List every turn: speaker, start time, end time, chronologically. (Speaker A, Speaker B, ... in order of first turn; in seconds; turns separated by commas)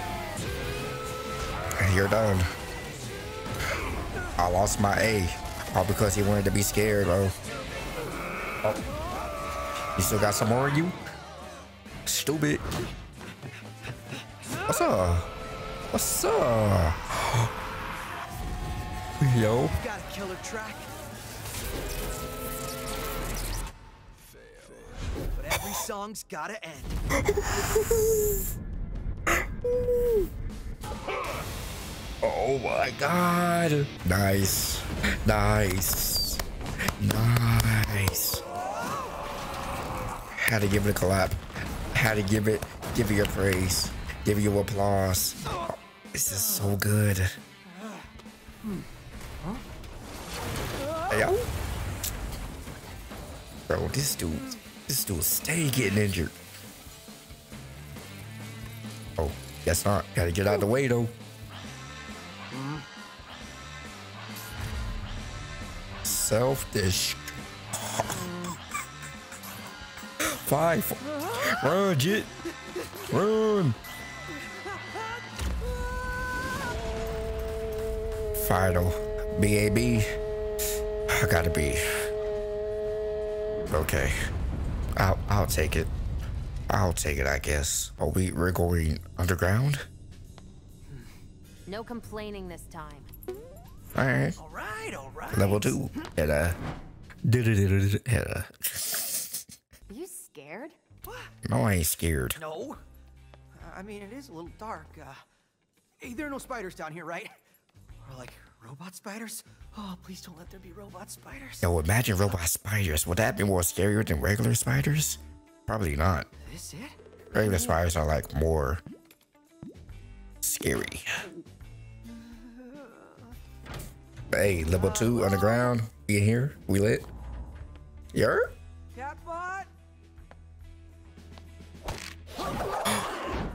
Speaker A: 1.8-2.5, Speaker A: 4.4-7.3, Speaker A: 9.9-11.0, Speaker A: 12.1-12.6, Speaker B: 13.4-14.9, Speaker A: 14.7-15.3, Speaker A: 15.9-17.5, Speaker A: 19.2-19.7, Speaker B: 19.7-20.9, Speaker B: 24.6-27.0, Speaker A: 27.1-28.4, Speaker A: 29.3-30.3, Speaker A: 32.2-36.4, Speaker A: 37.0-38.4, Speaker A: 40.4-41.4, Speaker A: 41.9-45.4, Speaker A: 46.1-47.3, Speaker B: 46.5-46.8, Speaker B: 47.7-48.1, Speaker B: 51.0-51.3, Speaker A: 51.1-51.4, Speaker A: 53.7-56.3, Speaker A: 59.2-61.1, Speaker B: 62.5-62.9, Speaker A: 66.0-68.1, Speaker B: 68.1-68.6, Speaker A: 70.2-72.3, Speaker B: 71.1-71.6, Speaker B: 72.5-73.2, Speaker A: 73.1-73.8, Speaker B: 74.4-75.2, Speaker A: 78.3-80.1, Speaker A: 81.1-81.8, Speaker A: 83.7-84.2, Speaker A: 85.0-85.9, Speaker A: 86.7-89.8, Speaker C: 91.7-93.1, Speaker A: 93.9-94.4, Speaker B: 94.4-96.1, Speaker A: 95.3-96.6, Speaker A: 97.3-99.4, Speaker C: 99.9-100.8, Speaker B: 101.0-101.3, Speaker A: 101.4-102.4, Speaker B: 102.3-102.8, Speaker B: 103.5-105.2, Speaker B: 106.0-107.3, Speaker B: 108.0-111.8, Speaker A: 111.6-116.3, Speaker B: 116.4-117.0, Speaker A: 117.3-118.8, Speaker C: 117.4-117.8, Speaker A: 120.4-121.1, Speaker B: 122.0-123.3, Speaker A: 124.3-127.1, Speaker B: 124.7-125.7, Speaker A: 128.1-128.5, Speaker B: 128.9-129.7, Speaker B: 132.5-133.1